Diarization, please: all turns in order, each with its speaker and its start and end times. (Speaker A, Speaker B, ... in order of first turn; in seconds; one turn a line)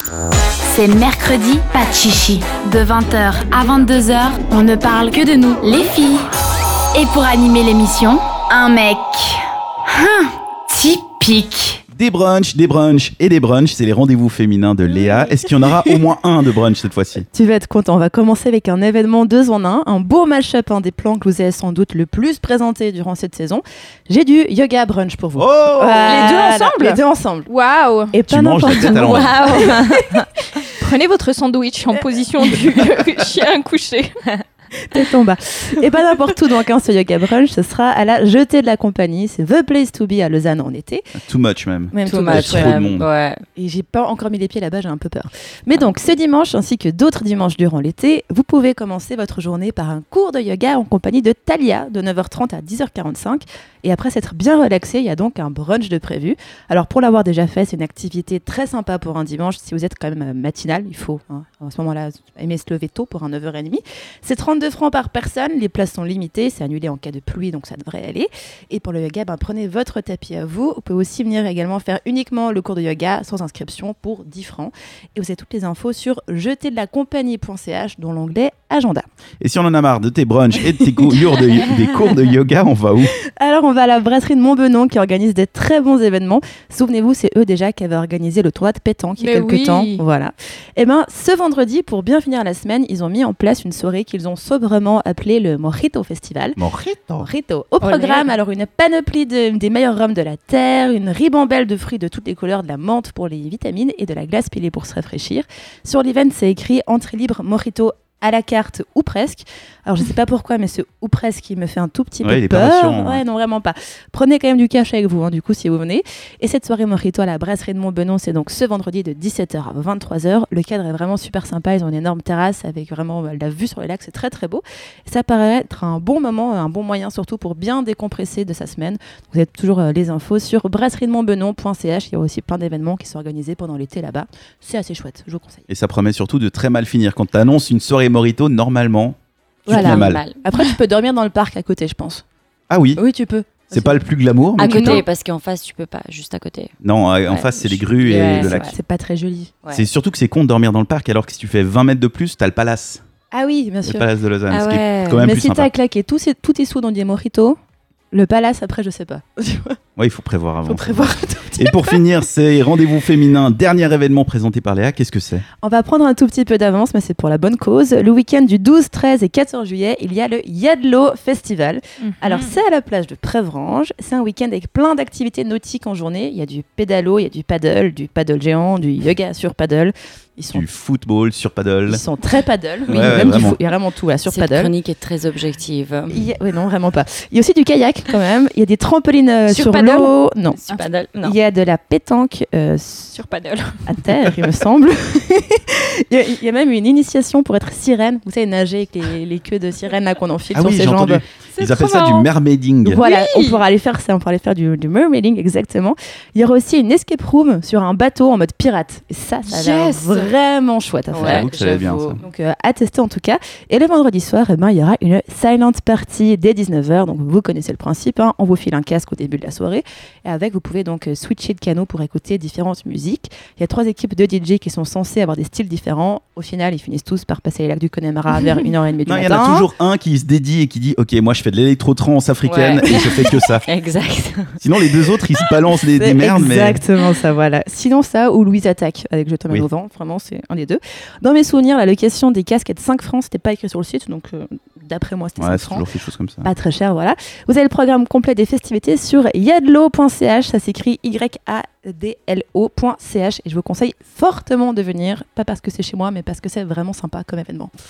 Speaker A: 0.7-6.2
Speaker A: 6.9-11.8
Speaker B: 11.9-17.2
Speaker C: 17.3-27.5
Speaker B: 25.4-26.4
Speaker D: 26.1-28.1
Speaker C: 28.1-30.2
Speaker B: 28.2-29.6
Speaker D: 28.9-34.1
Speaker C: 34.9-41.0
Speaker B: 41.2-43.1
Speaker C: 41.9-42.8
Speaker E: 42.0-43.4
Speaker C: 43.5-79.0
Speaker B: 79.4-83.1
Speaker C: 83.3-96.6
Speaker D: 89.2-90.0
Speaker B: 96.6-97.3
Speaker C: 97.2-135.6
Speaker E: 97.8-98.3
Speaker B: 112.2-113.2
Speaker B: 135.7-140.2
Speaker C: 139.7-142.2
Speaker E: 139.7-140.4
Speaker B: 142.7-143.0
Speaker C: 142.9-145.1
Speaker B: 143.7-145.0
Speaker E: 144.6-146.7
Speaker B: 146.8-148.7
Speaker E: 147.3-148.8
Speaker C: 148.4-149.5
Speaker B: 149.7-153.0
Speaker C: 153.3-154.1
Speaker B: 153.8-155.7
Speaker E: 154.5-155.3
Speaker C: 155.2-157.6
Speaker C: 158.1-159.8
Speaker B: 160.0-165.4
Speaker C: 160.7-161.9
Speaker C: 165.6-180.6
Speaker D: 172.0-172.6
Speaker B: 180.5-182.0
Speaker C: 181.9-184.7
Speaker B: 182.9-183.6
Speaker E: 183.0-183.3
Speaker E: 184.2-186.3
Speaker C: 186.1-190.6
Speaker E: 189.5-189.9
Speaker D: 189.5-190.1
Speaker E: 190.5-191.3
Speaker C: 191.2-193.2
Speaker D: 193.2-194.4
Speaker C: 193.9-201.2
Speaker B: 200.5-203.0
Speaker D: 201.6-202.3
Speaker C: 202.8-211.5
Speaker D: 202.9-203.6
Speaker D: 209.5-210.3
Speaker E: 211.1-212.2
Speaker B: 211.2-212.2
Speaker C: 212.2-229.7
Speaker B: 229.1-233.6
Speaker E: 232.4-234.6
Speaker B: 234.6-236.8
Speaker C: 236.0-245.9
Speaker B: 245.4-246.5
Speaker C: 246.4-257.7